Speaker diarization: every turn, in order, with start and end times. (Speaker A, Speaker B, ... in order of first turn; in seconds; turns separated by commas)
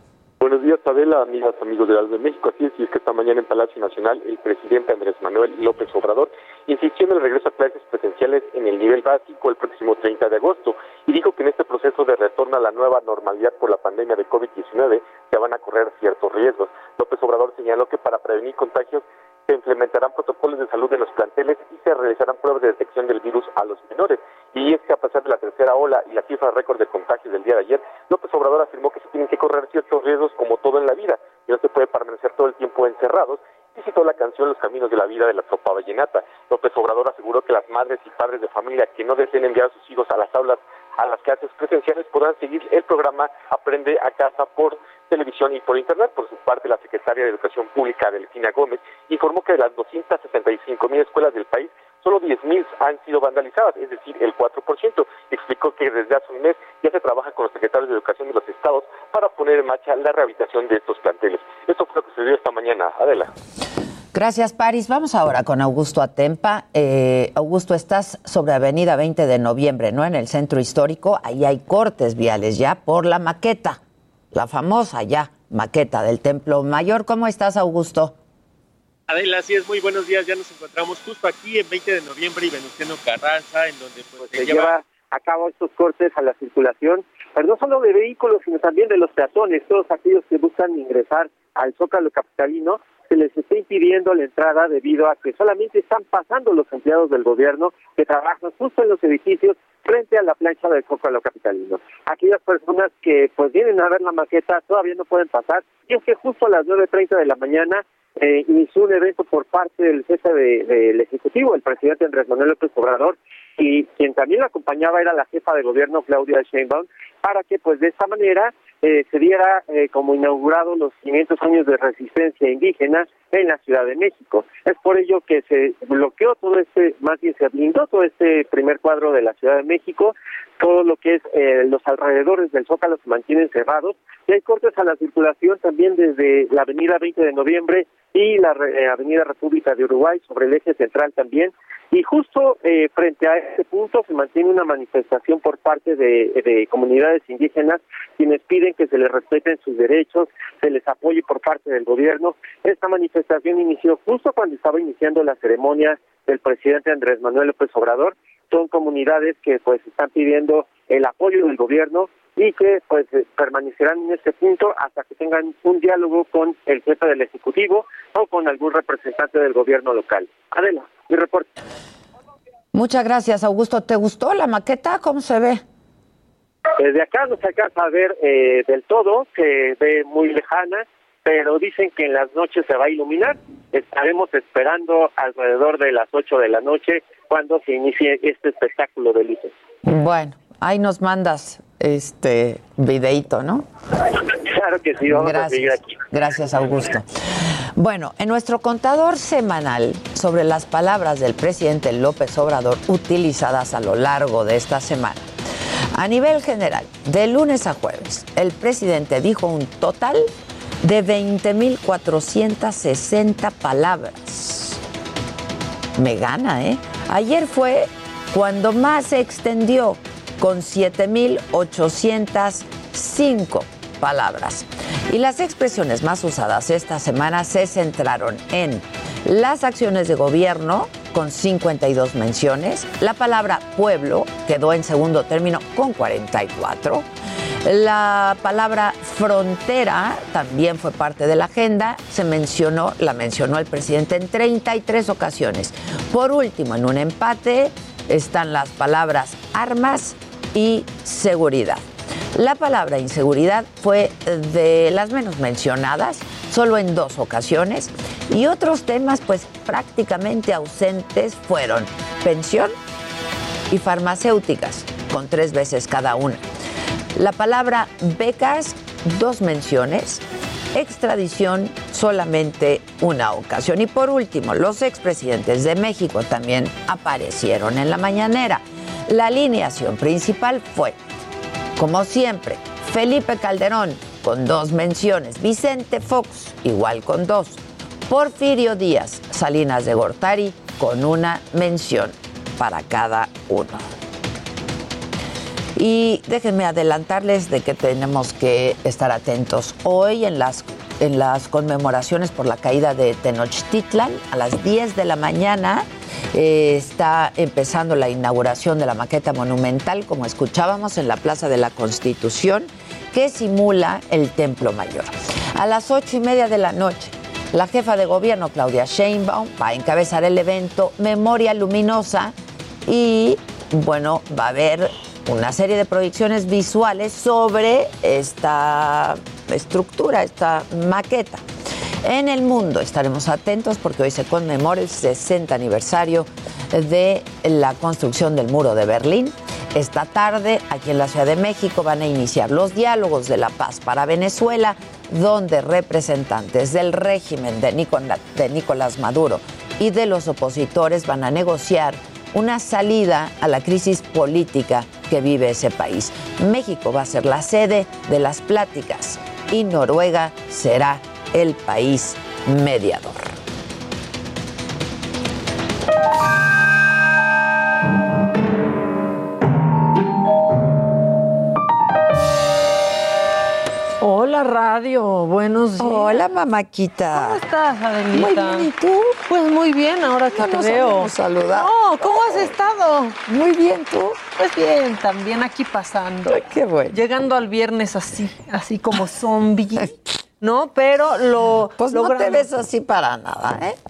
Speaker A: 0.4-63.3, Speaker B: 64.1-73.8, Speaker B: 74.3-78.2, Speaker C: 79.1-84.8, Speaker D: 84.3-171.5, Speaker B: 172.7-175.6, Speaker D: 176.8-189.5, Speaker B: 189.8-193.7, Speaker D: 194.3-195.9, Speaker B: 195.1-197.1, Speaker B: 197.8-205.3, Speaker B: 205.9-210.3, Speaker B: 210.8-214.8, Speaker B: 216.0-237.1, Speaker B: 237.6-262.8, Speaker B: 263.7-266.4, Speaker B: 267.1-281.0, Speaker B: 281.8-293.9, Speaker B: 295.8-322.3, Speaker B: 322.9-331.4, Speaker B: 332.0-363.4, Speaker E: 374.0-376.2, Speaker B: 375.8-377.4, Speaker E: 377.1-378.7, Speaker B: 378.1-379.2, Speaker E: 379.3-383.2, Speaker B: 380.3-382.5, Speaker B: 383.3-384.2, Speaker E: 384.4-386.4, Speaker B: 386.3-387.0, Speaker E: 386.9-392.5, Speaker B: 391.8-393.8